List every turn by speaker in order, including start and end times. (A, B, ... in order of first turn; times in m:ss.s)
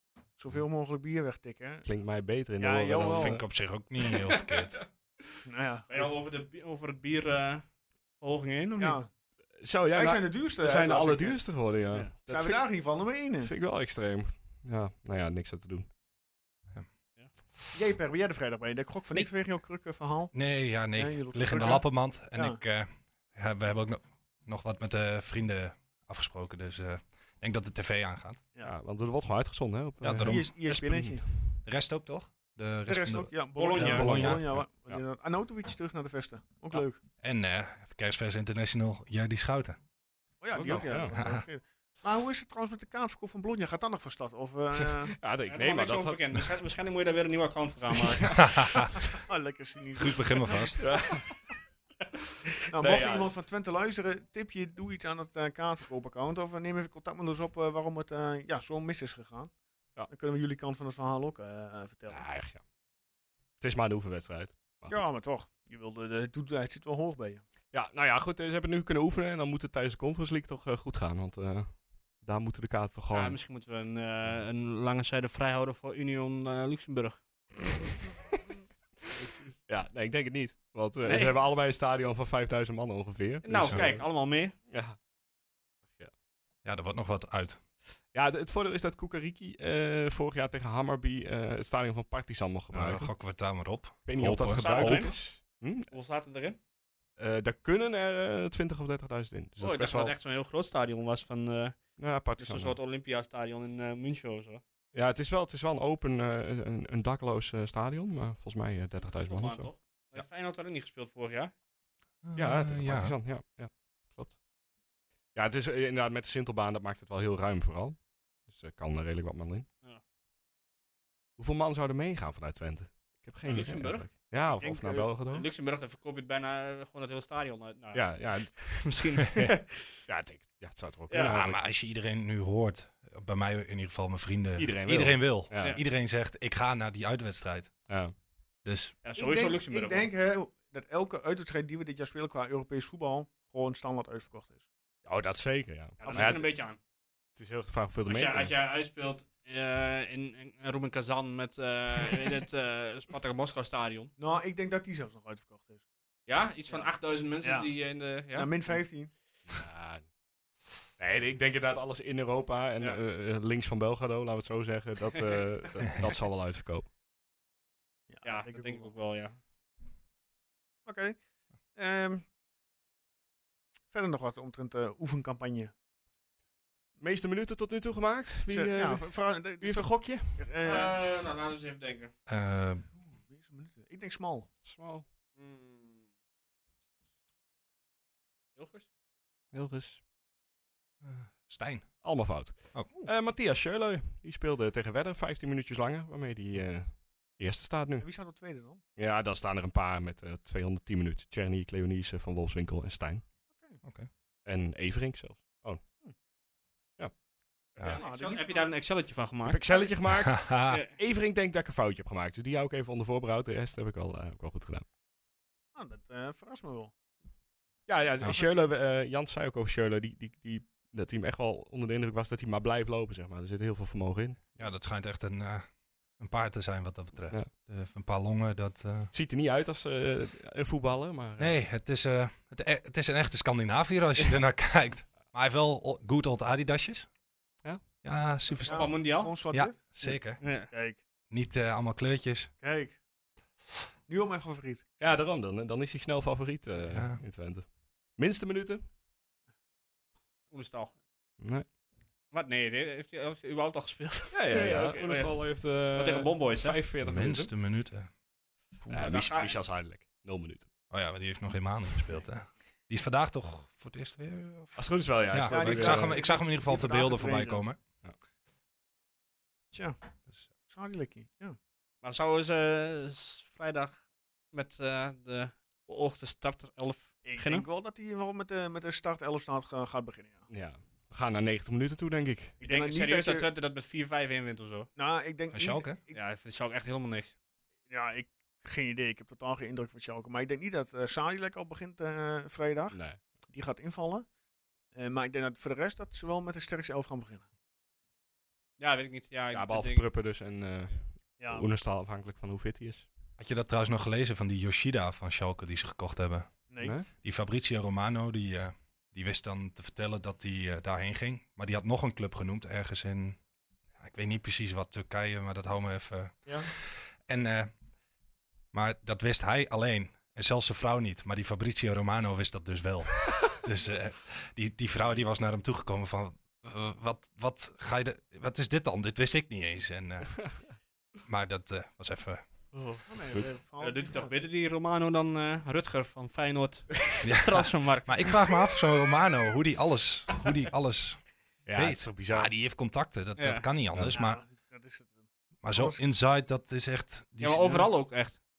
0:00.4-0:01.8 A
0:01.8-0:03.4 B
0:02.6-0:03.4 A
0:03.1-0:04.8 C
0:04.3-0:04.7 D
0:05.4-0:06.1 A
0:05.9-0:07.6 D
0:08.2-0:09.0 D
0:08.8-0:09.1 A
0:09.6-0:12.6 B
0:09.9-0:11.5 A
0:12.2-0:13.5 A
0:13.4-0:15.9 B
0:17.7-0:20.3 A
0:20.3-0:28.4 C
0:20.9-0:22.6 A
0:28.6-0:31.4 B
0:30.0-0:30.5 C
0:30.2-0:31.2 A
0:31.6-0:34.6 C
0:32.9-0:37.0 A
0:33.6-0:34.3 D
0:34.2-0:35.0 B
0:37.2-0:39.8 C
0:40.4-0:45.1 A
0:40.5-0:41.1 B
0:41.1-0:41.4 C
0:44.8-0:46.4 B
0:45.5-0:48.7 D
0:48.0-0:48.3 B
0:48.4-0:48.9 C
0:49.0-0:50.7 A
0:50.0-0:50.9 C
0:50.8-0:51.2 B
0:52.7-0:59.5 A
0:52.8-0:53.3 B
1:00.1-1:02.3 A
1:02.1-1:02.6 B
1:03.6-1:05.0 B
1:04.9-1:07.4 A
1:07.7-1:13.4 B
1:13.1-1:17.2 D
1:19.7-1:24.0 B
1:21.0-1:21.3 D
1:23.4-1:24.5 D
1:24.7-1:25.0 B
1:26.6-1:27.6 C
1:28.1-1:33.1 B
1:32.7-1:35.1 C
1:34.0-1:35.9 B
1:34.5-1:35.2 D
1:35.9-1:36.6 D
1:37.2-1:40.1 B
1:39.6-1:44.6 D
1:42.0-1:42.8 B
1:44.9-1:50.2 B
1:49.0-1:51.5 D
1:52.2-1:53.1 C
1:52.4-1:54.4 B
1:55.3-1:59.7 B
2:01.4-2:05.4 B
2:03.4-2:04.1 D
2:04.6-2:05.4 A
2:05.3-2:09.9 D
2:07.9-2:09.0 B
2:10.0-2:11.6 B
2:11.1-2:11.4 D
2:11.3-2:17.8 C
2:14.6-2:15.8 B
2:17.9-2:18.1 B
2:18.6-2:19.0 C
2:19.0-2:20.1 D
2:19.1-2:24.6 A
2:25.0-2:26.5 B
2:26.0-2:26.4 A
2:26.0-2:26.8 D
2:27.4-2:28.5 B
2:28.1-2:34.1 D
2:34.2-2:35.8 A
2:36.3-2:38.7 D
2:36.7-2:37.7 A
2:38.3-2:39.1 A
2:39.5-2:40.1 B
2:41.0-2:46.8 B
2:48.1-2:48.9 A
2:48.2-2:49.4 D
2:50.8-2:51.2 A
2:51.7-2:52.2 A
2:53.9-2:55.7 A
2:57.0-3:00.4 B
2:58.5-3:01.0 A
3:00.6-3:02.1 D
3:02.3-3:02.8 C
3:03.0-3:04.5 A
3:04.6-3:05.0 B
3:05.4-3:06.0 D
3:08.6-3:08.8 D
3:09.5-3:10.0 B
3:11.0-3:12.9 C
3:12.0-3:18.1 B
3:18.0-3:18.8 A
3:19.0-3:23.2 B
3:23.5-3:23.8 A
3:23.8-3:24.1 C
3:24.4-3:25.8 B
3:27.8-3:29.8 D
3:27.9-3:28.7 A
3:29.4-3:34.8 B
3:30.1-3:30.8 C
3:30.7-3:30.9 D
3:35.7-3:36.9 A
3:37.9-3:44.5 B
3:38.2-3:38.5 A
3:44.6-3:49.1 C
3:49.1-3:51.6 B
3:51.4-3:57.1 C
3:58.0-4:00.4 C
3:58.6-4:01.0 A
3:58.6-3:59.3 D
4:00.4-4:00.7 D
4:01.3-4:02.5 C
4:02.6-4:03.0 A
4:04.1-4:04.8 A
4:05.0-4:08.8 B
4:06.9-4:07.2 C
4:10.5-4:10.9 D
4:11.4-4:11.6 B
4:12.3-4:16.8 D
4:14.3-4:17.5 B
4:17.0-4:18.1 C
4:18.8-4:19.2 C
4:18.9-4:20.7 B
4:19.1-4:19.6 D
4:20.9-4:27.8 C
4:24.8-4:26.2 B
4:25.4-4:27.6 A
4:29.7-4:30.0 A
4:30.7-4:31.6 A
4:32.0-4:37.6 D
4:37.2-4:40.5 A
4:40.5-4:42.6 B
4:42.6-4:43.5 A
4:42.6-4:44.9 D
4:45.0-4:46.2 A
4:45.5-4:46.0 C
4:46.1-4:47.3 D
4:47.9-4:54.3 A
4:52.9-4:53.2 B
4:54.9-4:57.5 A
4:58.8-5:00.0 D
4:59.5-5:03.1 B
5:01.4-5:01.7 A
5:03.4-5:13.4 C
5:06.7-5:06.9 A
5:06.8-5:07.1 B
5:14.0-5:17.7 C
5:18.7-5:30.5 C
5:31.2-5:32.4 C
5:32.7-5:33.0 D
5:33.0-5:34.3 A
5:33.8-5:38.5 D
5:37.2-5:44.4 C
5:41.6-5:42.5 B
5:43.4-5:43.6 D
5:44.1-5:46.0 A
5:45.6-5:47.9 C
5:47.4-5:48.4 D